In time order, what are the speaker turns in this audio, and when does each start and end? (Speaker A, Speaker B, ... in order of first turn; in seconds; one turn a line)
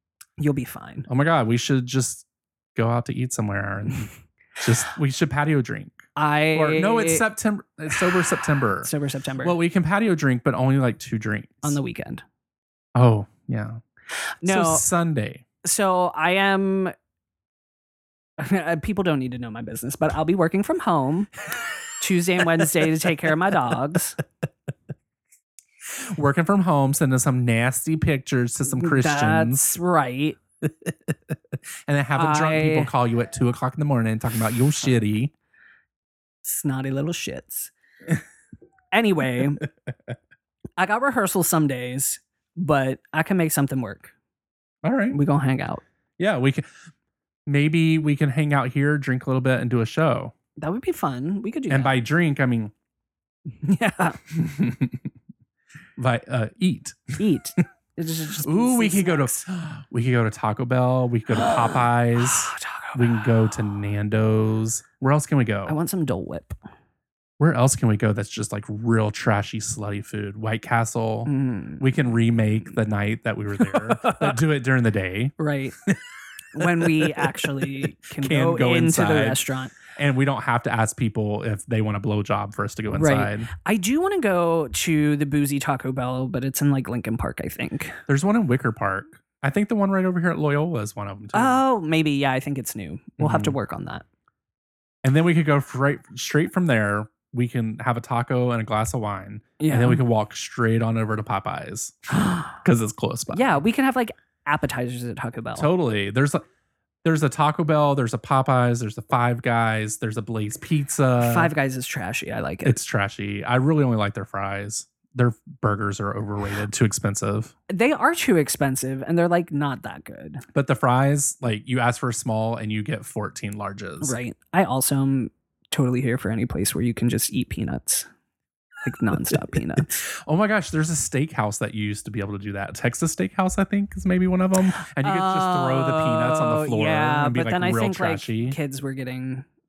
Speaker A: 0.4-1.1
Speaker B: 1.1-8.9
Speaker A: 6.2-7.3
Speaker A: 8.8-9.6
Speaker B: 9.4-11.8
Speaker A: 11.6-12.2
Speaker B: 12.9-13.8
Speaker A: 14.4-14.9
Speaker B: 14.4-15.4
Speaker A: 15.6-16.9
Speaker A: 18.4-21.3
Speaker A: 22.0-24.2
Speaker B: 25.9-29.7
Speaker A: 28.7-30.4
Speaker B: 30.6-35.3
Speaker A: 32.2-32.9
Speaker A: 36.4-37.7
Speaker A: 38.9-39.6
Speaker A: 40.8-44.1
Speaker B: 44.8-45.2
Speaker A: 45.1-45.8
Speaker B: 46.2-46.6
Speaker B: 47.5-50.3
Speaker A: 50.6-52.0
Speaker B: 51.7-52.7
Speaker A: 53.6-54.2
Speaker B: 54.3-55.1
Speaker B: 56.0-57.2
Speaker A: 57.2-59.5
Speaker B: 58.4-65.7
Speaker A: 62.2-63.2
Speaker A: 65.7-66.5
Speaker B: 67.4-76.0
Speaker A: 71.3-71.9
Speaker A: 73.6-74.3
Speaker A: 75.4-75.8
Speaker A: 76.5-79.8
Speaker B: 76.6-79.4
Speaker B: 79.9-83.5
Speaker A: 82.9-88.0
Speaker B: 88.1-91.6
Speaker A: 91.3-94.0
Speaker B: 93.2-93.5
Speaker B: 95.0-102.0
Speaker A: 99.6-100.0
Speaker A: 102.1-102.5
Speaker B: 102.5-103.6
Speaker A: 103.3-105.7
Speaker B: 105.5-106.5
Speaker B: 107.0-111.5
Speaker A: 111.2-112.8
Speaker B: 112.6-117.5
Speaker A: 117.7-120.4
Speaker B: 120.5-124.2
Speaker A: 124.0-128.1
Speaker A: 128.8-130.0
Speaker B: 130.0-138.6
Speaker A: 135.0-139.4